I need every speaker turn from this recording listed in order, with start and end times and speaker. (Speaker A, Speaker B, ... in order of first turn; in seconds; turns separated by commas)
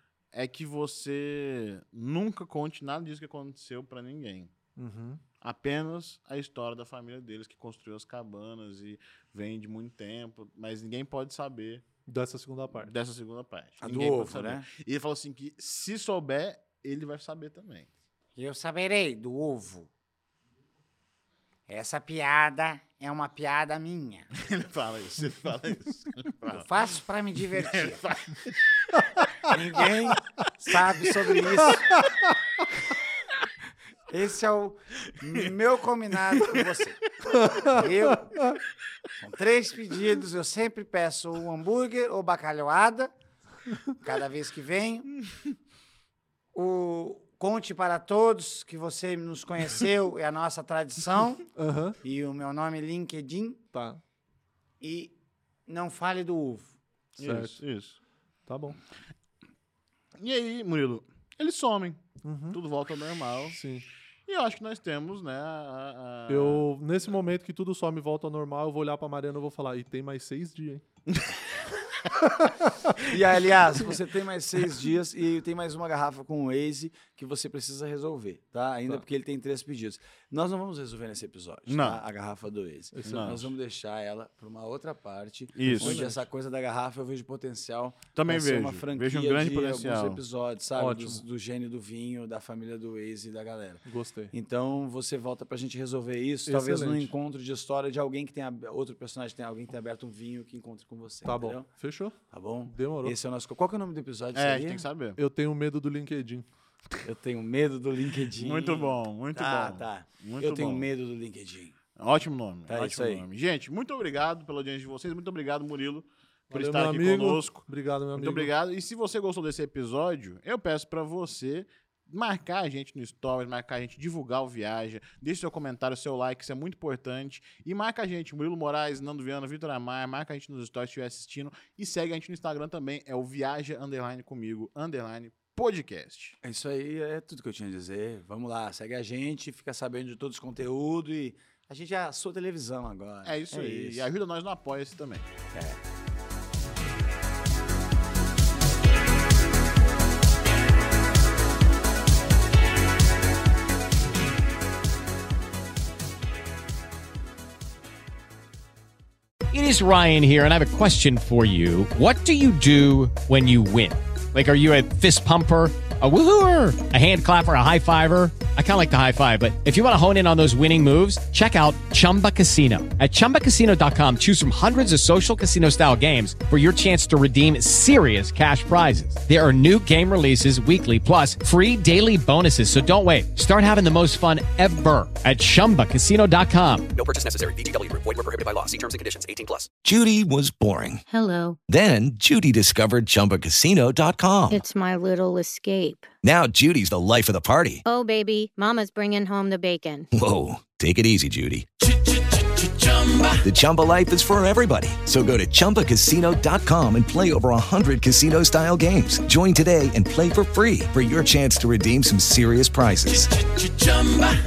Speaker A: 0.3-4.5, Speaker B: 4.8-5.2, Speaker A: 5.4-11.8, Speaker B: 12.1-12.9, Speaker A: 12.8-17.9, Speaker C: 13.8-14.7, Speaker D: 18.4-19.9, Speaker D: 21.7-24.3, Speaker A: 24.4-26.7, Speaker D: 26.5-28.0, Speaker A: 27.6-29.0, Speaker D: 29.5-32.0, Speaker D: 34.1-37.0, Speaker A: 36.4-36.7, Speaker B: 37.3-38.5, Speaker D: 37.6-38.4, Speaker D: 39.2-43.1, Speaker D: 44.0-45.2, Speaker D: 46.5-51.5, Speaker B: 51.6-52.0, Speaker D: 52.0-53.6, Speaker B: 53.7-54.0, Speaker D: 54.8-55.1, Speaker D: 55.7-56.8, Speaker A: 57.2-58.0, Speaker B: 57.2-57.6, Speaker B: 58.5-58.8, Speaker A: 60.2-63.6, Speaker B: 62.2-62.6, Speaker B: 63.5-63.9, Speaker A: 64.3-66.7, Speaker B: 66.3-70.8, Speaker A: 71.1-71.3, Speaker B: 72.5-73.0, Speaker C: 73.1-101.7, Speaker A: 81.7-82.0, Speaker B: 83.0-83.3, Speaker A: 83.0-83.5, Speaker A: 85.5-86.0, Speaker B: 85.6-86.2, Speaker A: 88.2-90.2, Speaker B: 90.8-91.2, Speaker B: 93.8-94.3, Speaker B: 96.5-97.1, Speaker B: 101.2-103.2, Speaker C: 102.3-104.9, Speaker A: 104.3-105.2, Speaker B: 105.2-106.5, Speaker C: 107.0-111.8, Speaker A: 108.4-110.9, Speaker A: 112.0-136.4, Speaker C: 112.7-113.3, Speaker B: 116.5-118.5, Speaker C: 136.4-144.1, Speaker A: 143.2-145.3, Speaker C: 145.5-145.8, Speaker E: 159.5-186.9, Speaker F: 186.9-189.7, Speaker G: 189.8-191.0, Speaker H: 191.1-191.6, Speaker G: 191.7-194.6, Speaker H: 194.5-196.1, Speaker G: 196.2-197.8, Speaker H: 197.8-200.1, Speaker G: 200.1-201.7, Speaker G: 203.4-213.3, Speaker F: 213.5-214.3